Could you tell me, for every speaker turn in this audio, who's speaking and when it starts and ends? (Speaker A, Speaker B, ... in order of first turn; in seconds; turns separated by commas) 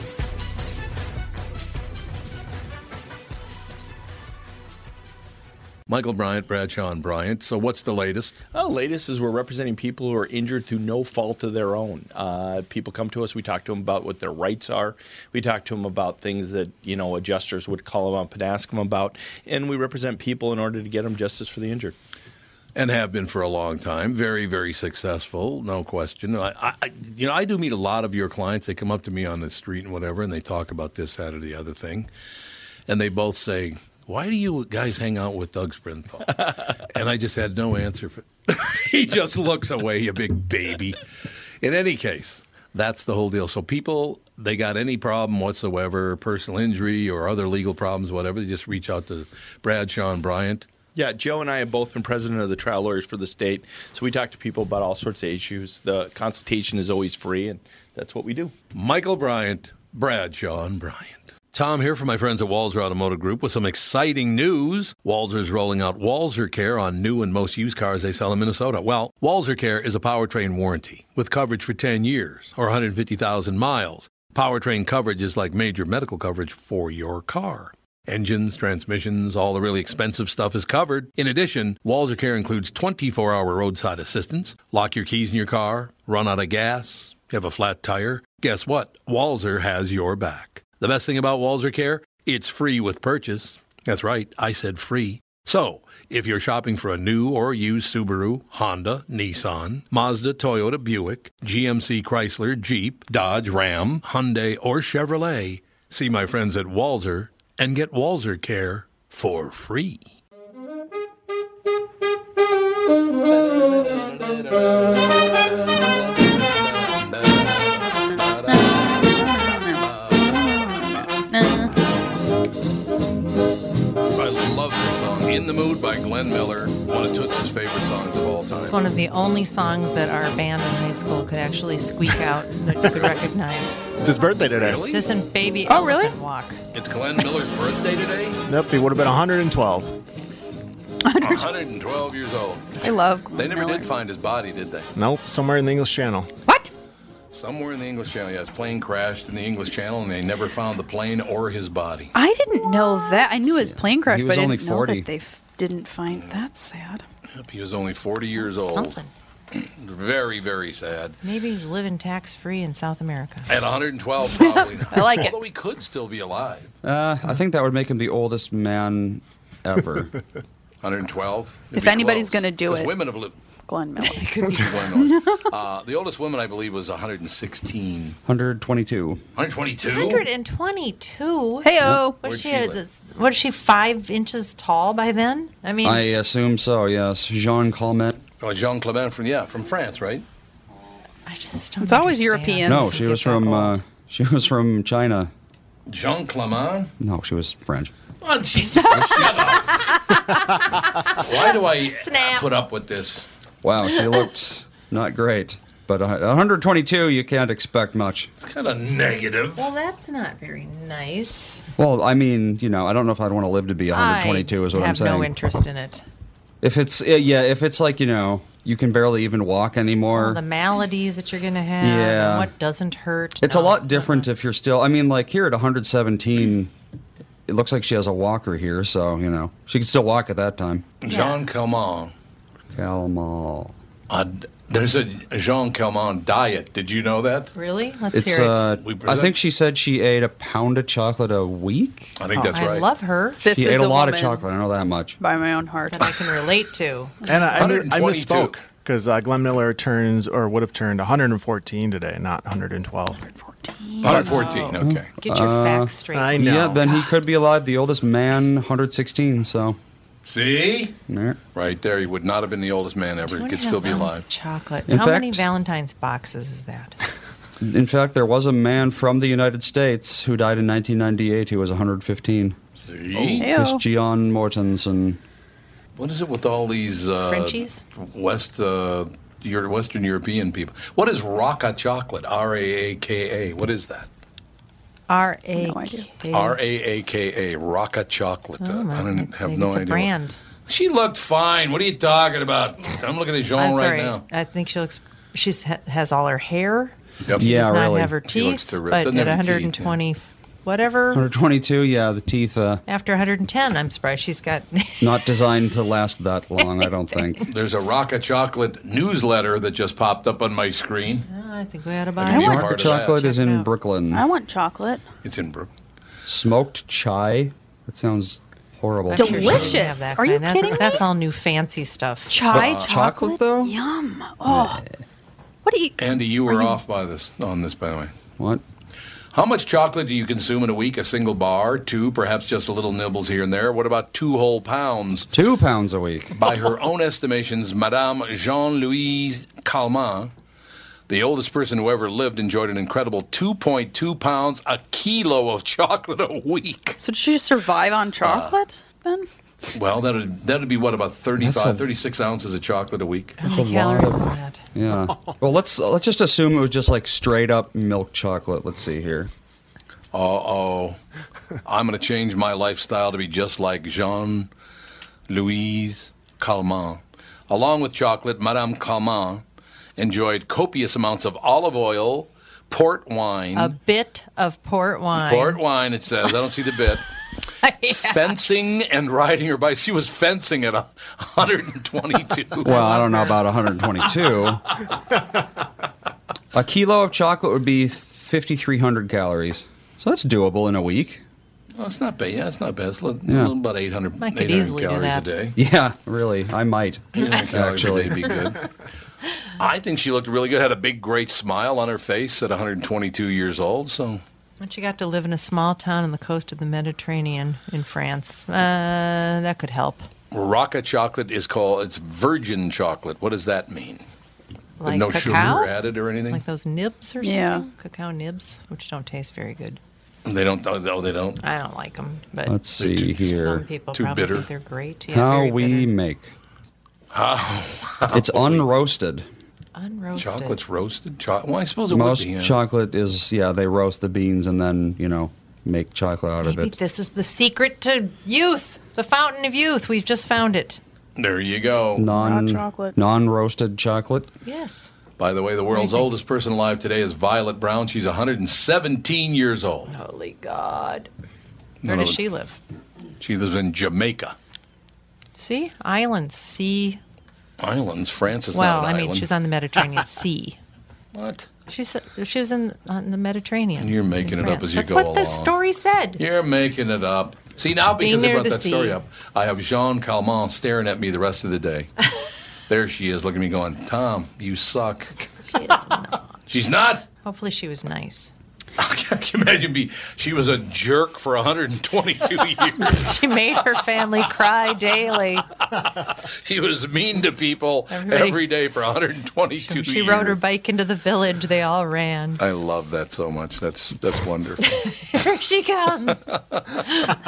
Speaker A: 5.9-8.3, Speaker B: 8.5-21.9, Speaker A: 22.7-32.1, Speaker A: 32.9-41.0, Speaker A: 41.6-50.7, Speaker B: 50.9-58.5, Speaker A: 58.7-110.0, Speaker A: 113.3-121.2, Speaker C: 118.5-121.7, Speaker A: 124.1-128.8, Speaker D: 128.6-133.8, Speaker A: 132.9-133.2, Speaker E: 134.0-134.9, Speaker A: 134.5-135.0, Speaker D: 134.8-136.6, Speaker C: 135.7-136.1, Speaker A: 136.7-138.4, Speaker E: 138.4-140.0, Speaker C: 141.0-141.5, Speaker A: 141.2-144.9, Speaker C: 142.8-143.9, Speaker E: 144.9-146.3, Speaker A: 147.3-152.1, Speaker C: 152.1-157.0, Speaker F: 153.4-155.1, Speaker A: 156.1-156.4, Speaker A: 157.3-159.0, Speaker D: 158.4-159.1, Speaker A: 159.5-161.2, Speaker D: 161.2-163.5, Speaker A: 163.5-166.7, Speaker C: 164.4-165.3, Speaker F: 166.8-170.1, Speaker A: 170.8-173.3, Speaker C: 171.7-172.9, Speaker C: 173.7-175.4, Speaker D: 174.0-174.9, Speaker A: 174.6-178.2, Speaker F: 178.2-179.2, Speaker A: 179.3-180.3, Speaker D: 179.8-186.0, Speaker C: 181.6-182.2, Speaker A: 182.2-182.8, Speaker F: 185.8-188.1, Speaker A: 188.4-190.2, Speaker D: 191.2-193.7, Speaker C: 191.8-192.9, Speaker F: 192.7-195.3, Speaker A: 195.9-196.9, Speaker F: 197.0-197.9, Speaker A: 198.2-199.9, Speaker D: 199.9-200.5, Speaker D: 201.1-202.5, Speaker A: 201.2-203.3, Speaker F: 203.6-208.3, Speaker A: 208.4-209.7, Speaker D: 209.6-211.6, Speaker F: 211.8-215.3, Speaker D: 213.9-216.0, Speaker F: 216.6-220.4, Speaker D: 220.1-224.3, Speaker F: 221.8-222.5, Speaker F: 223.4-226.7, Speaker F: 227.5-230.8, Speaker A: 231.0-232.1, Speaker D: 231.1-231.4, Speaker F: 232.7-233.7, Speaker A: 234.1-237.5, Speaker D: 237.5-238.7, Speaker F: 238.1-242.1, Speaker A: 238.8-239.3, Speaker A: 242.2-242.9, Speaker D: 242.3-243.6, Speaker C: 243.4-244.4, Speaker F: 243.5-245.2, Speaker C: 245.2-246.1, Speaker D: 245.9-247.1, Speaker E: 247.2-253.3, Speaker A: 247.6-248.6, Speaker C: 253.3-254.3, Speaker A: 254.0-255.1, Speaker D: 254.0-256.7, Speaker F: 254.8-259.8, Speaker E: 256.1-256.9, Speaker A: 260.2-260.9, Speaker F: 261.1-261.4, Speaker A: 261.5-264.2, Speaker D: 263.3-267.0, Speaker F: 264.9-265.5, Speaker F: 267.6-272.6, Speaker A: 272.8-273.5, Speaker F: 273.1-275.2, Speaker C: 273.4-273.8, Speaker A: 276.0-284.1, Speaker D: 277.2-277.8, Speaker D: 285.1-286.6, Speaker C: 285.6-286.1, Speaker A: 286.3-290.1, Speaker D: 288.6-290.4, Speaker A: 290.7-294.2, Speaker D: 293.6-301.2, Speaker F: 297.4-298.1, Speaker A: 298.2-300.0, Speaker F: 301.1-302.8, Speaker D: 302.9-305.3, Speaker F: 305.0-307.4, Speaker A: 307.5-311.3, Speaker D: 311.3-313.7, Speaker A: 312.2-313.2, Speaker F: 312.3-314.2, Speaker C: 312.3-312.7, Speaker C: 314.1-315.0, Speaker A: 315.2-315.7, Speaker F: 316.3-319.8, Speaker D: 319.1-322.5, Speaker C: 319.1-321.0, Speaker A: 319.3-319.8, Speaker C: 322.3-324.8, Speaker A: 322.5-322.9, Speaker F: 322.5-323.8, Speaker F: 324.5-324.8, Speaker C: 325.6-326.8, Speaker A: 326.0-328.1, Speaker F: 328.4-328.6, Speaker A: 329.3-335.3, Speaker F: 335.3-336.4, Speaker A: 336.4-340.3, Speaker A: 341.1-347.0, Speaker C: 347.0-349.3, Speaker A: 348.2-348.6, Speaker A: 349.7-353.4, Speaker F: 351.4-351.9, Speaker D: 353.4-354.6, Speaker F: 353.4-359.3, Speaker A: 360.1-361.0, Speaker A: 361.6-364.5, Speaker A: 365.3-369.4, Speaker A: 370.0-373.7, Speaker D: 373.5-375.6, Speaker A: 375.2-377.1, Speaker D: 377.6-378.3, Speaker A: 377.9-382.8, Speaker D: 382.6-383.4, Speaker F: 382.6-384.6, Speaker F: 386.5-391.2, Speaker A: 391.8-395.6, Speaker F: 393.3-393.5, Speaker D: 394.2-395.5, Speaker F: 395.6-398.3, Speaker A: 397.1-398.7, Speaker A: 399.6-404.2, Speaker D: 404.6-410.1, Speaker A: 410.3-414.0, Speaker D: 414.8-415.7, Speaker A: 414.8-416.4, Speaker D: 416.3-419.8, Speaker C: 417.2-417.6, Speaker A: 420.2-421.4, Speaker D: 421.4-422.6, Speaker F: 422.5-423.6, Speaker A: 422.8-423.3, Speaker D: 423.2-425.9, Speaker A: 423.9-424.4, Speaker F: 425.1-426.3, Speaker A: 427.1-428.6, Speaker F: 428.1-429.3, Speaker D: 429.7-430.6, Speaker A: 430.1-432.5, Speaker F: 431.9-436.8, Speaker D: 436.4-440.8, Speaker A: 441.1-442.1, Speaker F: 441.9-444.3, Speaker C: 442.1-442.9, Speaker D: 444.4-444.9, Speaker A: 445.2-449.9, Speaker D: 445.7-446.1, Speaker D: 449.9-451.1, Speaker A: 451.8-452.2, Speaker D: 451.8-452.6, Speaker A: 453.2-454.4, Speaker D: 455.3-457.0, Speaker A: 457.6-459.3, Speaker D: 458.5-460.6, Speaker A: 461.1-461.5, Speaker D: 461.7-466.2, Speaker A: 463.8-465.5, Speaker A: 466.2-471.9, Speaker D: 468.0-469.0, Speaker A: 472.7-475.1, Speaker D: 475.5-476.4, Speaker A: 476.5-477.0, Speaker D: 477.2-478.3, Speaker A: 478.8-483.1, Speaker D: 482.8-485.5, Speaker A: 485.7-490.4, Speaker D: 487.9-488.4, Speaker D: 489.6-492.4, Speaker A: 492.4-494.8, Speaker D: 494.6-496.2, Speaker A: 496.1-496.8